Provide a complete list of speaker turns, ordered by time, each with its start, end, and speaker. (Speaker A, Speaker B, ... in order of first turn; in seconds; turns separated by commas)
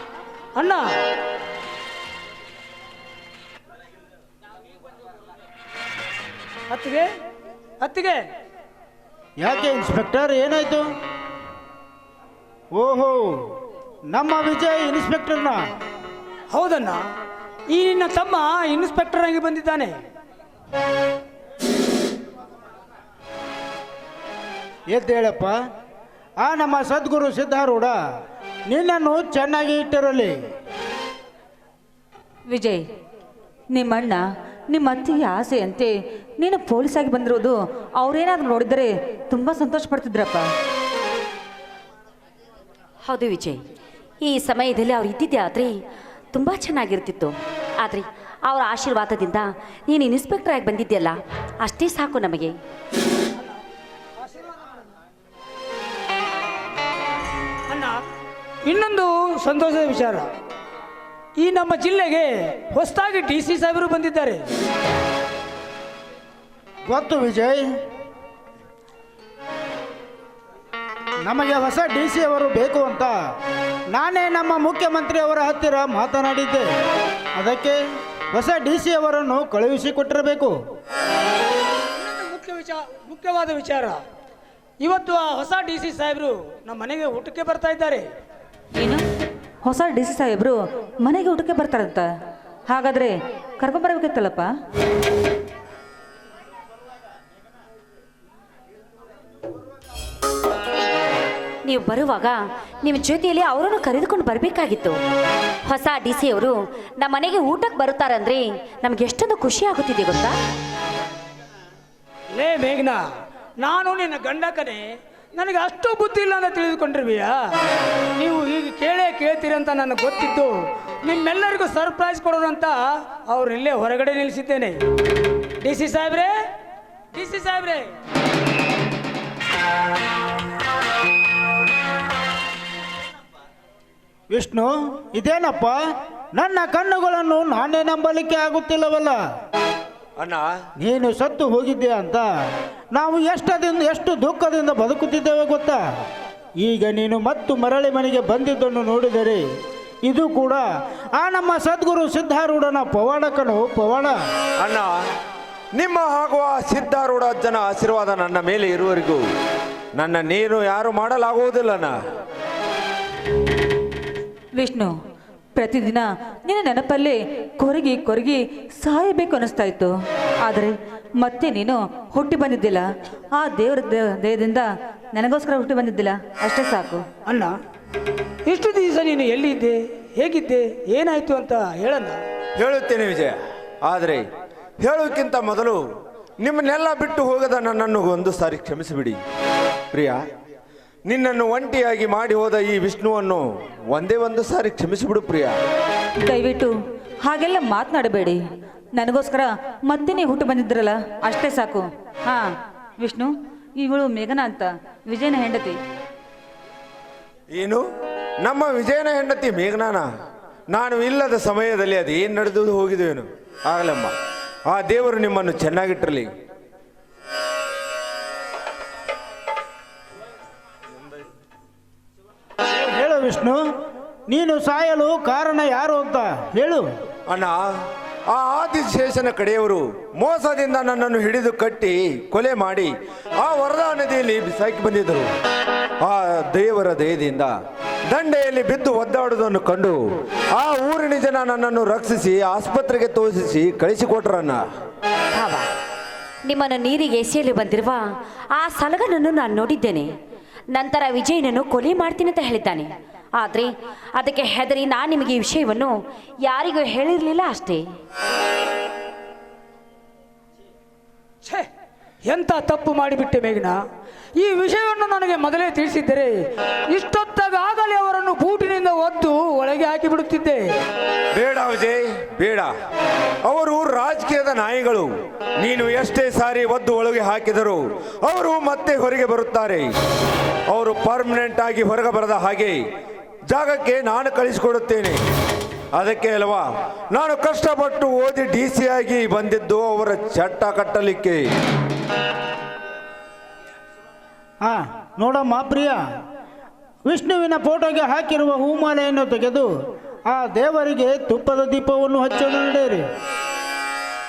Speaker A: 0.5-0.9, Speaker A: 6.7-7.1, Speaker A: 7.8-8.2, Speaker B: 9.4-10.8, Speaker B: 12.7-13.4, Speaker B: 14.1-15.6, Speaker A: 16.5-17.0, Speaker A: 17.7-20.0, Speaker B: 24.9-25.6, Speaker B: 26.4-27.9, Speaker B: 28.7-30.3, Speaker C: 32.5-32.8, Speaker C: 33.7-40.5, Speaker D: 43.0-43.6, Speaker D: 44.2-45.7, Speaker D: 46.3-52.5, Speaker A: 57.7-58.0, Speaker A: 58.6-60.3, Speaker A: 61.4-64.4, Speaker B: 66.9-67.6, Speaker B: 71.2-73.2, Speaker B: 73.9-76.7, Speaker B: 77.3-77.8, Speaker B: 78.3-80.5, Speaker A: 82.0-84.0, Speaker A: 84.8-88.1, Speaker C: 88.8-89.0, Speaker C: 89.6-92.1, Speaker C: 92.7-94.5, Speaker D: 101.6-105.0, Speaker D: 105.7-110.3, Speaker A: 112.3-113.0, Speaker A: 113.6-117.4, Speaker A: 118.2-124.8, Speaker A: 125.6-126.3, Speaker A: 127.1-127.9, Speaker B: 134.3-135.8, Speaker B: 136.3-139.2, Speaker E: 140.2-140.5, Speaker B: 140.8-142.2, Speaker B: 142.9-145.8, Speaker B: 146.6-149.4, Speaker B: 150.0-150.6, Speaker B: 151.2-154.2, Speaker E: 154.6-154.9, Speaker E: 155.7-159.2, Speaker E: 159.9-161.9, Speaker C: 164.5-164.9, Speaker C: 165.5-177.0, Speaker A: 177.3-177.5, Speaker A: 178.4-182.2, Speaker E: 182.6-184.2, Speaker E: 184.8-185.8, Speaker E: 186.4-189.2, Speaker E: 189.9-190.2, Speaker E: 191.1-195.5, Speaker C: 196.2-198.4, Speaker C: 198.9-205.8, Speaker E: 207.5-207.8, Speaker E: 208.4-210.1, Speaker E: 210.7-214.1, Speaker E: 214.7-216.3, Speaker B: 222.7-223.6, Speaker B: 224.3-226.8, Speaker E: 227.3-227.7, Speaker E: 228.3-235.3, Speaker E: 236.0-237.5, Speaker E: 238.1-240.0, Speaker E: 240.5-244.6, Speaker D: 245.3-245.7, Speaker D: 246.5-248.0, Speaker D: 248.5-250.1, Speaker D: 250.7-255.9, Speaker D: 256.4-257.8, Speaker A: 262.3-263.8, Speaker A: 264.4-266.4, Speaker A: 266.9-270.7, Speaker E: 271.3-272.7, Speaker E: 273.4-279.9, Speaker E: 280.7-282.8, Speaker E: 283.5-285.2, Speaker E: 285.9-291.4, Speaker B: 294.6-296.0, Speaker B: 297.1-299.7, Speaker B: 300.3-303.0